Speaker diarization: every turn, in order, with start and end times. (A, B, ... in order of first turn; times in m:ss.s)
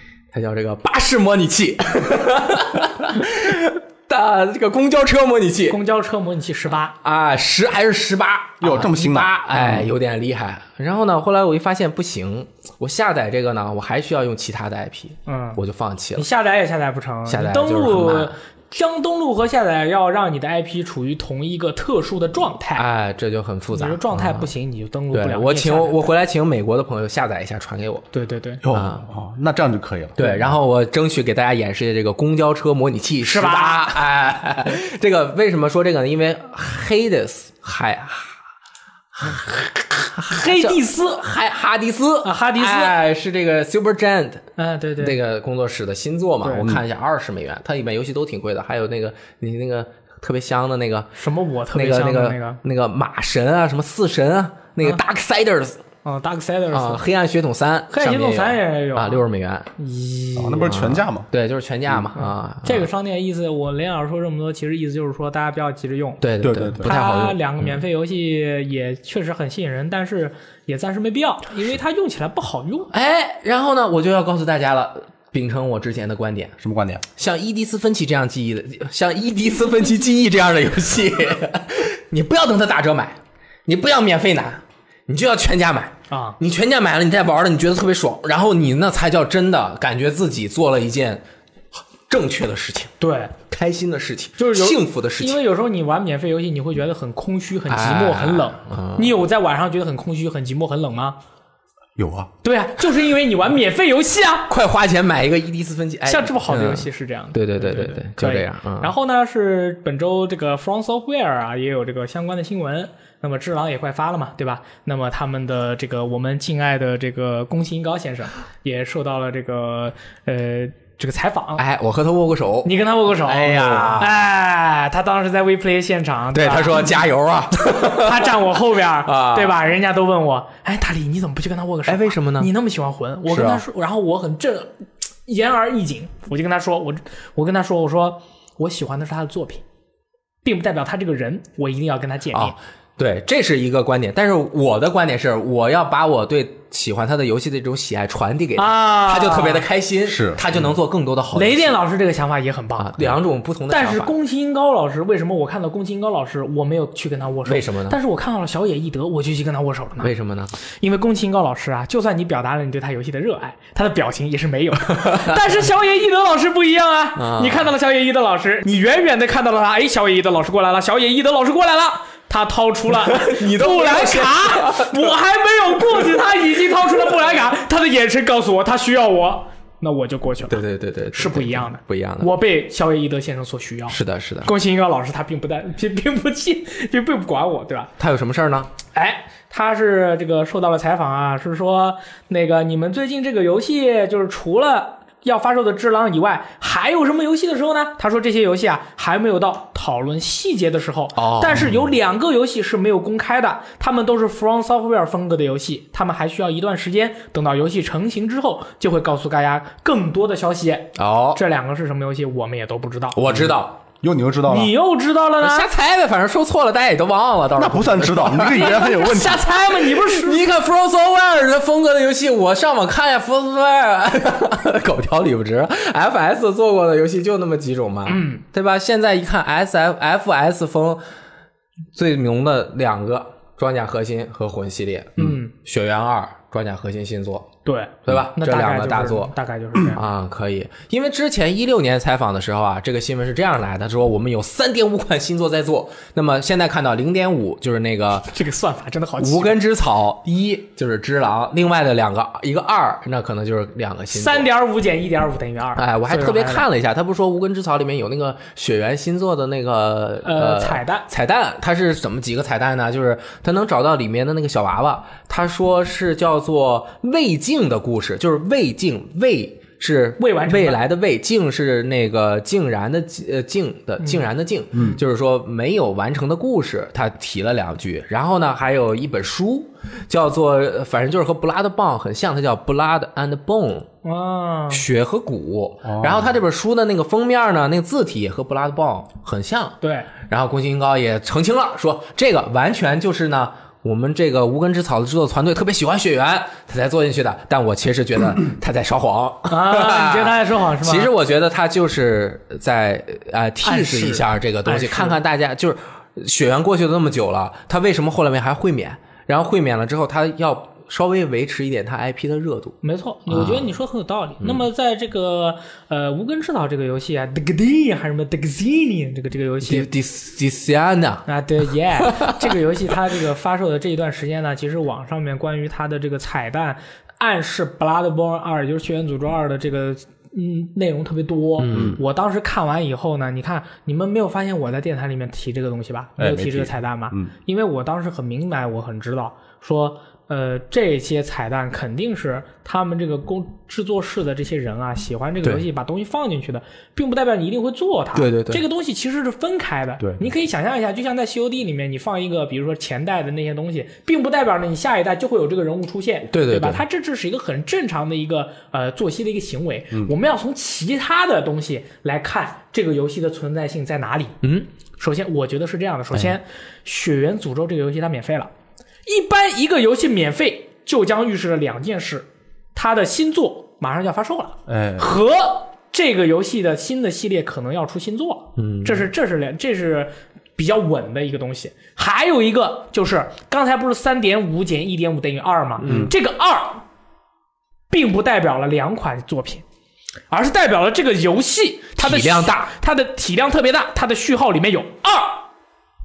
0:00.3-0:05.8 A
0:05.7-0:07.0 B
0:07.0-0:16.3 A
0:08.6-0:09.9 C
0:15.3-0:15.6 B
0:16.2-0:22.9 B
0:17.3-0:18.4 A
0:22.8-0:24.5 A
0:23.7-0:26.1 B
0:25.1-0:28.1 A
0:28.1-0:28.6 B
0:28.6-0:30.2 C
0:28.7-0:29.1 A
0:30.2-0:38.4 A
0:33.2-0:34.0 B
0:39.2-0:44.5 A
0:40.3-0:41.3 B
0:42.2-0:43.0 B
0:44.6-0:45.2 B
0:45.0-0:51.1 A
0:46.4-0:46.7 B
0:51.2-0:52.6 B
0:51.7-0:55.8 A
0:56.0-0:57.0 B
0:56.7-0:59.7 A
0:57.9-0:59.2 B
0:59.8-1:00.8 B
1:00.4-1:01.3 C
1:00.6-1:02.9 A
1:02.2-1:06.2 B
1:06.2-1:07.8 A
1:06.4-1:06.9 C
1:06.8-1:12.9 B
1:12.9-1:16.6 A
1:16.6-1:17.0 C
1:17.2-1:31.2 A
1:26.1-1:26.4 B
1:32.1-1:32.9 A
1:33.0-1:33.4 B
1:33.5-1:35.4 A
1:34.4-1:41.2 B
1:37.7-1:39.1 A
1:42.0-1:42.3 C
1:42.4-1:44.5 B
1:44.5-1:48.9 A
1:46.0-2:01.6 B
2:01.6-2:04.2 A
2:02.6-2:19.6 B
2:06.3-2:08.4 A
2:09.0-2:09.6 A
2:11.9-2:12.5 A
2:13.3-2:13.6 A
2:20.4-2:22.5 B
2:22.3-2:31.8 A
2:28.6-2:29.7 B
2:30.1-2:30.6 C
2:31.3-2:33.1 B
2:32.8-2:34.1 A
2:33.7-3:00.6 B
2:37.5-2:38.0 A
2:40.0-2:40.5 A
2:44.9-2:45.4 A
2:47.2-2:47.7 A
2:52.9-2:55.1 A
3:00.5-3:02.3 A
3:01.1-3:07.9 B
3:03.9-3:04.5 A
3:08.0-3:08.7 A
3:08.9-3:33.2 B
3:21.2-3:21.7 A
3:31.0-3:31.4 A
3:33.2-3:33.8 A
3:33.3-3:34.7 C
3:34.5-3:35.7 B
3:35.4-3:38.9 A
3:37.6-3:39.6 C
3:38.4-3:40.4 B
3:39.8-3:51.0 A
3:48.1-3:48.4 B
3:51.9-3:57.5 A
3:55.2-3:55.5 B
3:57.6-4:00.0 B
3:58.1-3:59.3 A
3:59.9-4:08.3 A
4:08.3-4:09.6 B
4:09.2-4:14.5 A
4:14.1-4:16.7 B
4:15.8-4:43.9 A
4:20.2-4:21.1 B
4:30.2-4:30.8 B
4:34.0-4:34.3 B
4:34.7-4:35.0 C
4:44.0-4:44.8 B
4:44.7-5:12.8 A
4:45.8-4:46.4 C
4:49.8-4:50.1 B
4:59.5-5:01.1 B
5:03.6-5:05.2 B
5:12.8-5:19.9 B
5:13.3-5:13.7 A
5:19.6-5:21.3 A
5:21.3-6:04.4 B
5:22.0-5:22.4 A
5:31.6-5:32.0 A
5:31.7-5:32.0 C
5:36.2-5:37.3 C
5:48.2-5:48.6 A
5:56.3-5:56.8 A
6:05.0-6:08.5 B
6:09.1-6:26.8 B
6:14.7-6:15.1 C
6:18.6-6:19.1 A
6:25.8-6:26.1 A
6:25.9-6:26.1 C
6:27.9-6:29.6 B
6:30.3-6:35.5 B
6:32.0-6:32.7 A